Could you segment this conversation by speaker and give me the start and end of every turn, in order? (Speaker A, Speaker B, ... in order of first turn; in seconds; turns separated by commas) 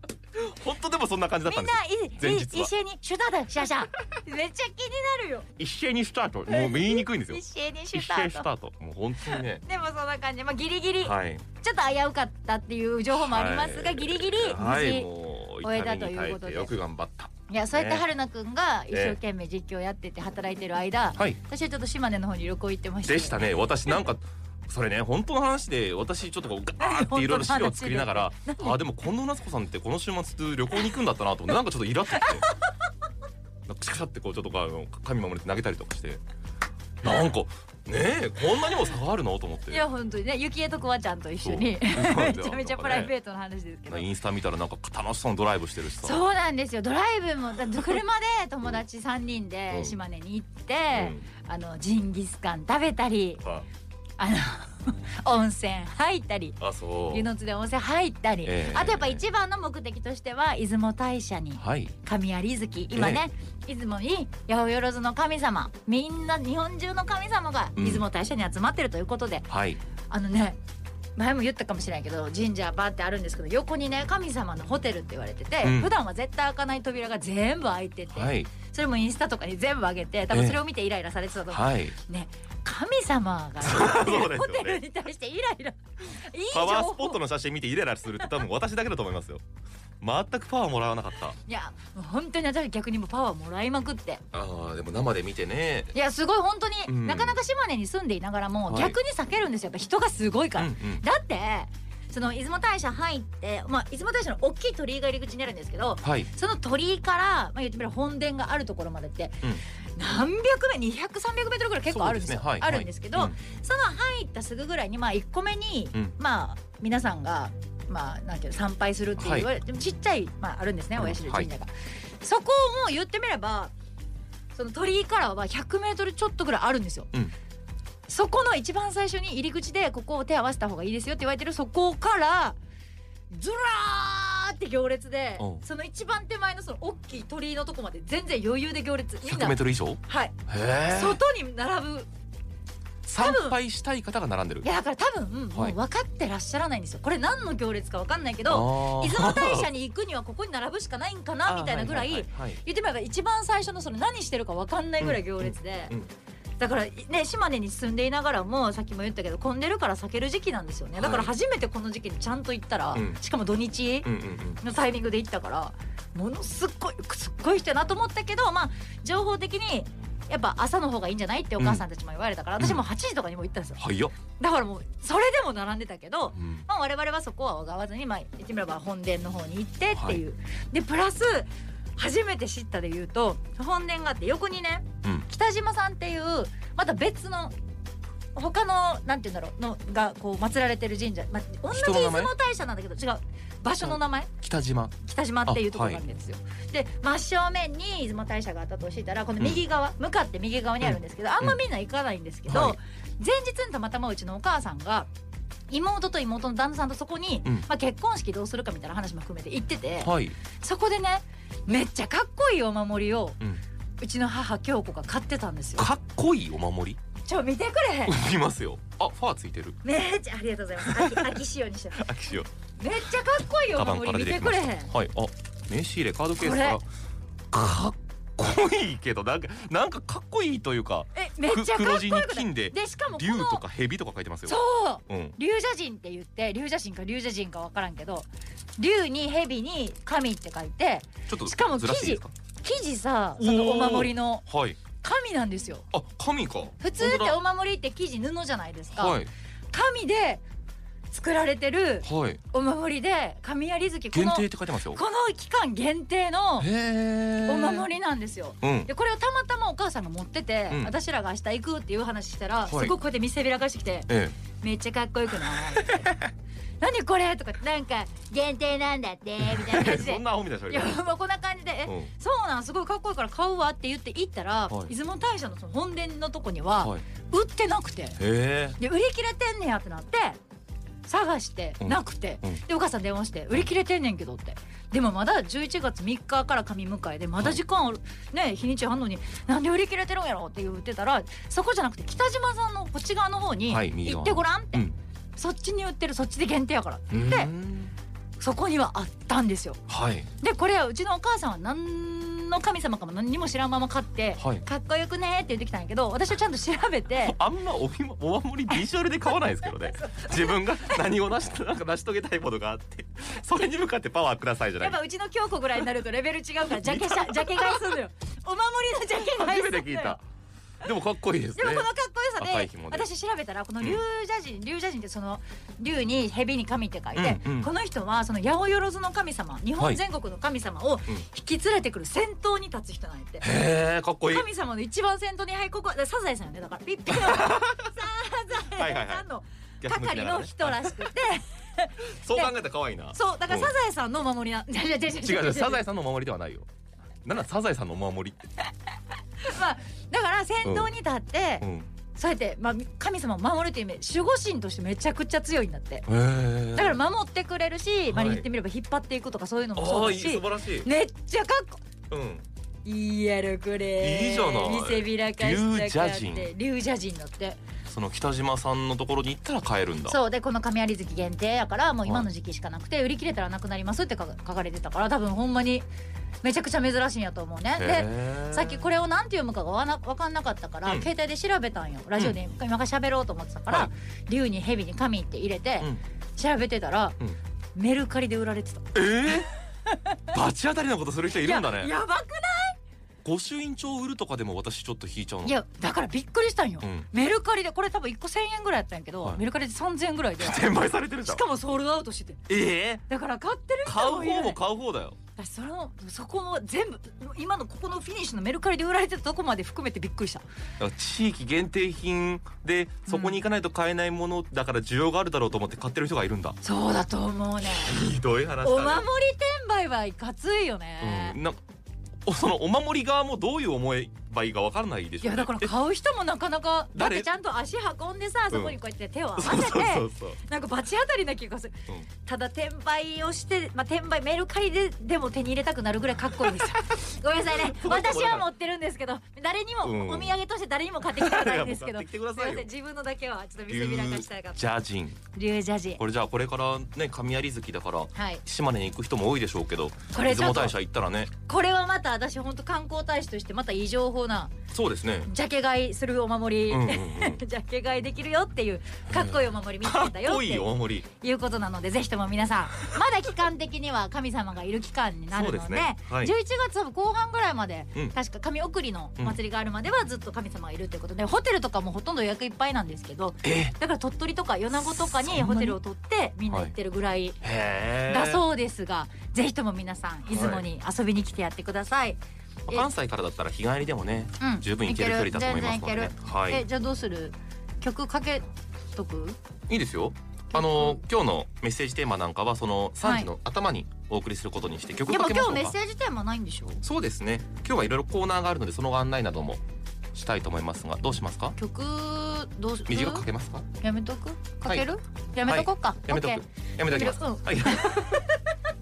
Speaker A: 0.3-2.7, Speaker B: 1.5-5.5, Speaker A: 5.6-7.4, Speaker B: 6.5-8.5, Speaker A: 7.9-9.6, Speaker B: 9.2-15.1, Speaker A: 11.0-11.5, Speaker A: 13.1-18.1, Speaker B: 15.6-16.7, Speaker B: 17.5-23.4, Speaker A: 18.9-19.2, Speaker A: 23.1-32.5, Speaker B: 26.8-28.8, Speaker A: 33.7-36.2, Speaker A: 37.0-39.8, Speaker B: 39.7-44.1, Speaker A: 41.4-43.1, Speaker A: 43.9-46.2, Speaker B: 46.0-53.4, Speaker A: 49.7-50.0, Speaker A: 50.9-51.2, Speaker B: 54.2-56.6, Speaker A: 56.6-57.3, Speaker B: 57.1-69.5, Speaker A: 58.4-59.2, Speaker A: 61.6-61.9, Speaker A: 62.9-63.2, Speaker A: 67.8-68.0, Speaker A: 69.5-69.8, Speaker B: 70.1-70.6, Speaker B: 71.2-87.2, Speaker A: 75.6-75.9, Speaker A: 78.1-78.5, Speaker A: 80.3-80.6, Speaker A: 81.5-82.0, Speaker A: 83.6-84.8, Speaker A: 86.5-89.4, Speaker A: 90.0-91.4, Speaker B: 91.5-94.2, Speaker A: 94.3-95.9, Speaker B: 95.9-121.7, Speaker A: 96.9-97.4, Speaker A: 98.7-99.0, Speaker A: 100.6-101.0, Speaker A: 106.0-106.3, Speaker A: 111.9-113.4, Speaker A: 119.2-119.5, Speaker A: 121.0-121.5, Speaker B: 122.2-123.7, Speaker B: 124.5-127.1, Speaker B: 128.1-132.6, Speaker B: 133.3-140.4, Speaker A: 135.4-135.6, Speaker A: 139.3-141.2, Speaker B: 140.9-142.1, Speaker A: 143.0-144.7, Speaker B: 143.2-143.6, Speaker B: 144.6-156.0, Speaker A: 148.5-149.7, Speaker A: 151.5-152.6, Speaker A: 155.0-156.1, Speaker B: 156.6-187.6, Speaker A: 161.0-161.3, Speaker A: 162.9-163.2, Speaker A: 164.1-164.6, Speaker A: 173.8-174.1, Speaker A: 176.4-176.6, Speaker A: 179.9-180.2, Speaker B: 188.3-194.3, Speaker A: 191.7-192.3, Speaker A: 193.8-194.9, Speaker B: 195.0-205.1, Speaker A: 195.5-196.0, Speaker A: 200.8-201.6, Speaker A: 202.5-202.8, Speaker B: 205.7-213.4, Speaker A: 210.0-210.4, Speaker B: 214.0-215.9, Speaker A: 215.8-217.0, Speaker B: 217.2-218.2, Speaker A: 218.1-219.8, Speaker B: 219.8-222.1, Speaker A: 220.8-221.4, Speaker A: 221.9-222.5, Speaker B: 222.8-224.9, Speaker A: 223.8-226.9, Speaker B: 226.4-226.8, Speaker A: 227.5-235.4, Speaker B: 231.1-233.6, Speaker B: 234.5-238.3, Speaker B: 238.8-244.5, Speaker A: 241.3-242.3, Speaker A: 243.4-244.8, Speaker B: 245.0-245.9, Speaker A: 245.9-247.4, Speaker B: 246.8-249.2, Speaker A: 248.9-249.3, Speaker B: 249.7-250.4, Speaker B: 251.1-256.7, Speaker A: 252.1-252.4, Speaker A: 254.1-255.0, Speaker A: 256.6-257.9, Speaker B: 257.4-266.1, Speaker A: 258.6-258.9, Speaker A: 262.7-262.9, Speaker A: 264.1-264.4, Speaker A: 265.5-266.3, Speaker B: 266.8-278.2, Speaker A: 269.4-271.0, Speaker A: 278.2-278.8, Speaker B: 278.8-280.4, Speaker B: 281.1-297.5, Speaker A: 281.8-282.6, Speaker A: 293.7-295.0, Speaker A: 297.1-297.9, Speaker B: 298.4-299.8, Speaker A: 299.9-300.3, Speaker B: 300.4-307.4, Speaker A: 304.4-304.6, Speaker A: 307.2-315.0, Speaker B: 309.9-311.0, Speaker B: 314.8-320.2, Speaker A: 316.7-318.0, Speaker A: 319.2-320.2, Speaker A: 320.8-323.1, Speaker B: 321.6-333.5, Speaker A: 327.1-327.7, Speaker A: 333.4-334.5, Speaker B: 334.3-342.5, Speaker A: 337.1-338.0, Speaker A: 338.7-339.3, Speaker A: 339.8-341.1, Speaker A: 342.0-343.7, Speaker B: 343.1-345.8, Speaker A: 345.2-346.7, Speaker A: 347.2-348.4, Speaker B: 349.4-356.1, Speaker A: 350.6-350.9, Speaker A: 351.6-351.9, Speaker A: 356.1-357.0, Speaker B: 356.7-361.8, Speaker A: 358.1-358.4, Speaker A: 359.8-360.9, Speaker A: 362.1-362.4, Speaker B: 362.9-367.6, Speaker A: 364.0-366.5, Speaker A: 367.9-370.2, Speaker B: 370.1-375.9, Speaker B: 376.4-387.2, Speaker A: 377.8-378.9, Speaker B: 387.8-390.2, Speaker A: 388.9-389.5, Speaker A: 390.3-391.9, Speaker B: 391.4-392.8, Speaker A: 393.2-395.6, Speaker B: 395.4-402.5, Speaker A: 396.8-397.1, Speaker A: 400.4-401.4, Speaker A: 402.5-403.0, Speaker B: 403.1-404.6, Speaker A: 403.9-405.2, Speaker B: 405.4-410.4, Speaker A: 410.8-416.6, Speaker B: 413.1-413.4, Speaker B: 416.6-418.0, Speaker A: 417.6-419.1, Speaker B: 418.6-421.4, Speaker A: 421.0-421.6, Speaker A: 422.2-425.7, Speaker B: 425.2-444.6, Speaker A: 426.9-427.3, Speaker A: 428.5-428.8, Speaker A: 429.4-430.4, Speaker A: 437.5-438.5, Speaker A: 439.8-440.4, Speaker A: 441.1-442.7, Speaker A: 443.7-445.2, Speaker B: 445.3-446.0, Speaker A: 446.0-451.3, Speaker B: 448.1-448.4, Speaker B: 450.1-450.8, Speaker B: 451.5-454.6, Speaker A: 454.7-455.3, Speaker B: 455.3-477.4, Speaker A: 456.7-457.4, Speaker A: 459.1-461.1, Speaker A: 465.3-466.3, Speaker A: 473.4-473.7, Speaker A: 474.7-475.8, Speaker A: 477.4-478.4, Speaker B: 478.1-482.9, Speaker A: 480.3-480.7, Speaker A: 482.7-486.6, Speaker B: 484.4-489.4, Speaker A: 489.7-495.8, Speaker B: 490.5-491.0, Speaker B: 493.0-493.3, Speaker B: 495.1-496.8, Speaker A: 496.8-499.6, Speaker A: 500.1-501.6, Speaker B: 501.6-503.3, Speaker A: 502.9-503.7, Speaker B: 503.8-508.3, Speaker A: 505.5-508.3